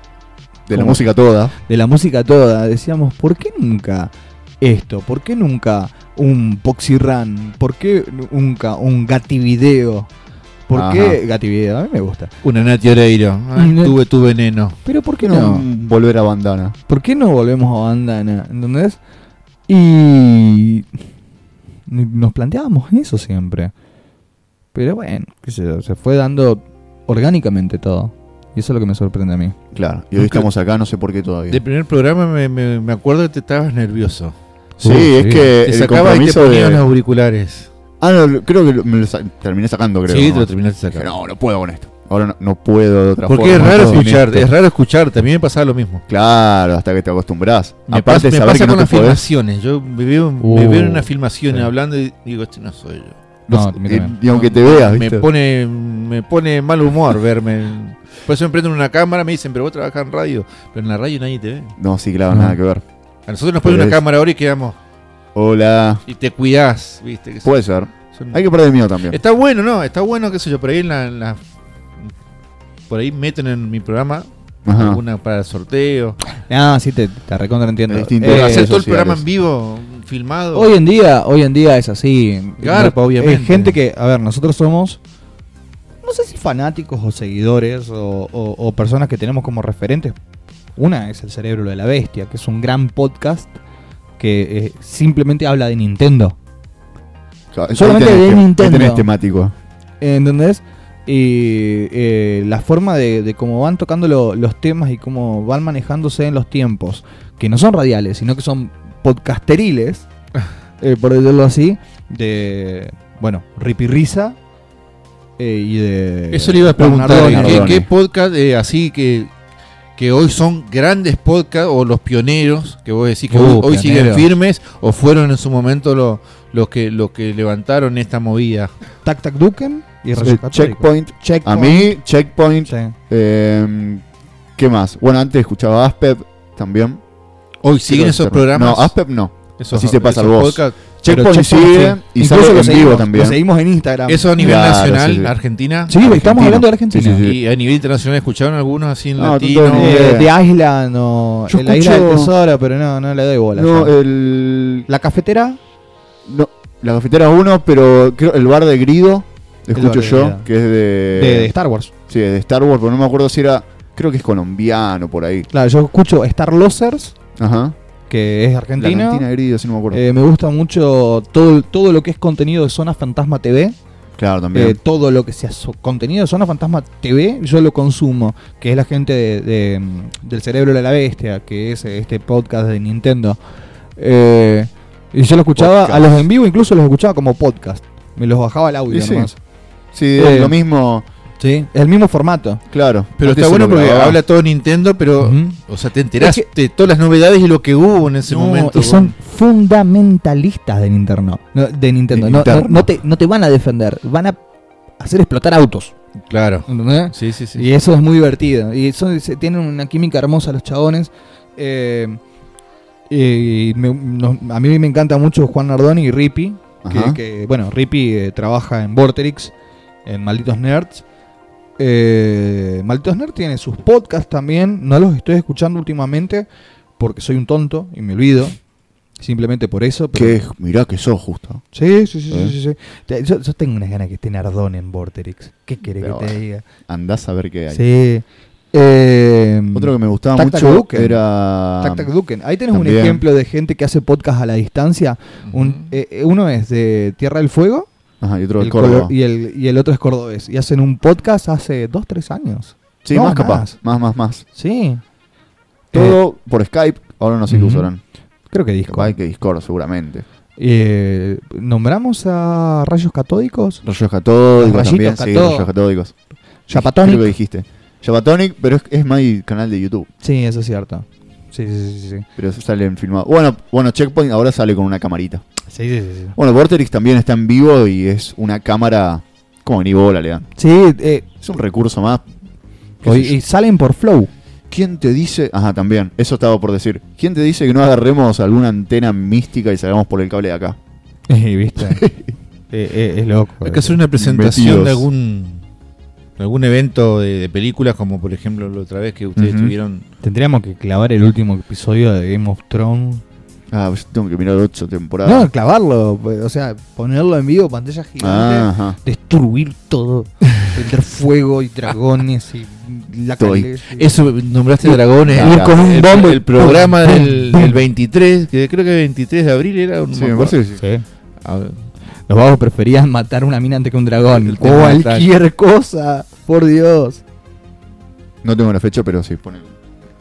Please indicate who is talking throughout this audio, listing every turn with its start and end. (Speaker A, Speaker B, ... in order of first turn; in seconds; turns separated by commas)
Speaker A: 0.7-1.5, Speaker B: 0.7-1.0, Speaker B: 1.6-10.1, Speaker B: 10.7-12.3, Speaker A: 10.7-11.2, Speaker C: 12.4-14.8, Speaker B: 13.6-13.9, Speaker B: 14.8-15.7, Speaker A: 15.2-16.7, Speaker B: 16.9-19.0, Speaker B: 19.7-20.9, Speaker B: 21.9-23.7, Speaker B: 24.7-29.6, Speaker A: 29.7-31.6, Speaker C: 31.5-34.3, Speaker A: 34.8-36.9, Speaker B: 34.8-35.5, Speaker C: 35.6-37.7, Speaker A: 38.0-44.4, Speaker C: 40.1-41.1, Speaker C: 43.2-46.0, Speaker B: 43.6-44.4, Speaker A: 46.1-49.2, Speaker C: 47.9-53.1, Speaker B: 50.4-51.6, Speaker A: 53.5-55.3, Speaker B: 53.5-54.1, Speaker C: 54.3-61.7, Speaker A: 61.8-62.8, Speaker B: 62.3-62.6, Speaker C: 63.3-64.7, Speaker A: 63.6-64.0, Speaker A: 65.3-66.0, Speaker C: 66.1-67.5, Speaker A: 67.4-69.2, Speaker C: 68.1-68.4, Speaker C: 69.1-71.4, Speaker C: 72.9-76.2, Speaker A: 74.7-75.0, Speaker B: 76.5-78.7, Speaker A: 77.9-79.2, Speaker C: 78.2-80.7, Speaker B: 80.5-85.0, Speaker C: 82.6-83.8, Speaker B: 86.0-90.2, Speaker B: 90.8-93.5, Speaker B: 94.2-96.3, Speaker A: 97.5-99.5, Speaker B: 97.7-99.1, Speaker B: 100.0-110.0, Speaker B: 110.8-114.4, Speaker B: 115.4-117.8, Speaker C: 116.3-119.3, Speaker A: 116.8-117.9, Speaker C: 120.0-128.7, Speaker B: 123.3-124.3, Speaker B: 129.0-131.9, Speaker A: 130.2-134.0, Speaker B: 132.7-132.9, Speaker A: 134.6-137.0, Speaker C: 137.6-138.9, Speaker A: 137.8-143.4, Speaker C: 139.6-140.7, Speaker B: 141.0-144.6, Speaker C: 144.1-145.9, Speaker A: 144.4-145.3, Speaker B: 145.9-147.2, Speaker A: 145.9-147.4, Speaker C: 147.1-150.1, Speaker A: 149.2-150.3, Speaker B: 149.7-153.9, Speaker A: 151.5-152.3, Speaker A: 153.5-154.9, Speaker B: 154.9-155.6, Speaker A: 156.2-161.5, Speaker B: 159.7-160.5, Speaker B: 161.1-161.9, Speaker A: 162.1-165.5, Speaker B: 165.5-167.1, Speaker A: 167.4-167.8, Speaker B: 168.1-169.2, Speaker A: 168.8-170.0, Speaker B: 169.9-173.8, Speaker A: 174.2-174.8, Speaker B: 174.5-183.4, Speaker B: 183.9-189.4, Speaker A: 185.6-186.2, Speaker A: 188.9-189.3, Speaker A: 189.9-191.0, Speaker B: 190.2-190.6, Speaker B: 191.4-192.6, Speaker A: 192.7-194.2, Speaker C: 193.2-199.1, Speaker B: 195.2-195.6, Speaker B: 196.2-196.5, Speaker B: 198.3-204.4, Speaker A: 202.1-202.9, Speaker B: 205.0-205.9, Speaker C: 206.3-207.6, Speaker B: 206.7-212.2, Speaker B: 213.1-219.5, Speaker A: 216.8-217.2, Speaker B: 220.1-221.0, Speaker B: 221.8-226.5, Speaker B: 227.0-228.6, Speaker B: 229.2-230.4, Speaker A: 230.1-231.6, Speaker B: 231.7-236.7, Speaker A: 232.3-232.5, Speaker A: 236.0-237.8, Speaker B: 237.7-241.2, Speaker A: 239.7-242.1, Speaker B: 241.8-247.9, Speaker A: 242.7-243.2, Speaker C: 245.5-245.9, Speaker A: 248.2-249.1, Speaker B: 248.6-253.8, Speaker A: 253.0-254.4, Speaker B: 254.5-255.0, Speaker B: 255.9-256.2, Speaker A: 255.9-258.0, Speaker B: 257.5-257.9, Speaker B: 258.5-259.1, Speaker A: 258.9-260.2, Speaker B: 260.6-263.8, Speaker A: 263.8-266.1, Speaker B: 264.6-265.7, Speaker B: 266.7-267.3, Speaker A: 266.7-270.1, Speaker B: 270.2-272.2, Speaker A: 272.4-275.4, Speaker B: 275.7-276.4, Speaker A: 276.4-280.4, Speaker B: 280.6-281.2, Speaker A: 281.4-282.2, Speaker A: 283.0-283.4, Speaker B: 283.0-284.3, Speaker A: 284.7-290.8, Speaker B: 291.3-292.0, Speaker A: 291.8-292.3, Speaker B: 292.7-294.0, Speaker C: 293.6-295.6, Speaker A: 294.1-295.1, Speaker C: 296.4-300.0, Speaker A: 299.4-299.7, Speaker B: 300.2-303.2, Speaker A: 303.7-305.5, Speaker B: 305.2-314.1, Speaker A: 308.2-309.0, Speaker A: 313.4-313.7, Speaker C: 313.9-320.6, Speaker B: 314.8-317.8, Speaker A: 315.2-315.8, Speaker A: 320.1-320.8, Speaker B: 320.8-321.0, Speaker C: 321.4-321.8, Speaker B: 322.3-327.2, Speaker C: 324.3-325.3, Speaker A: 328.4-329.7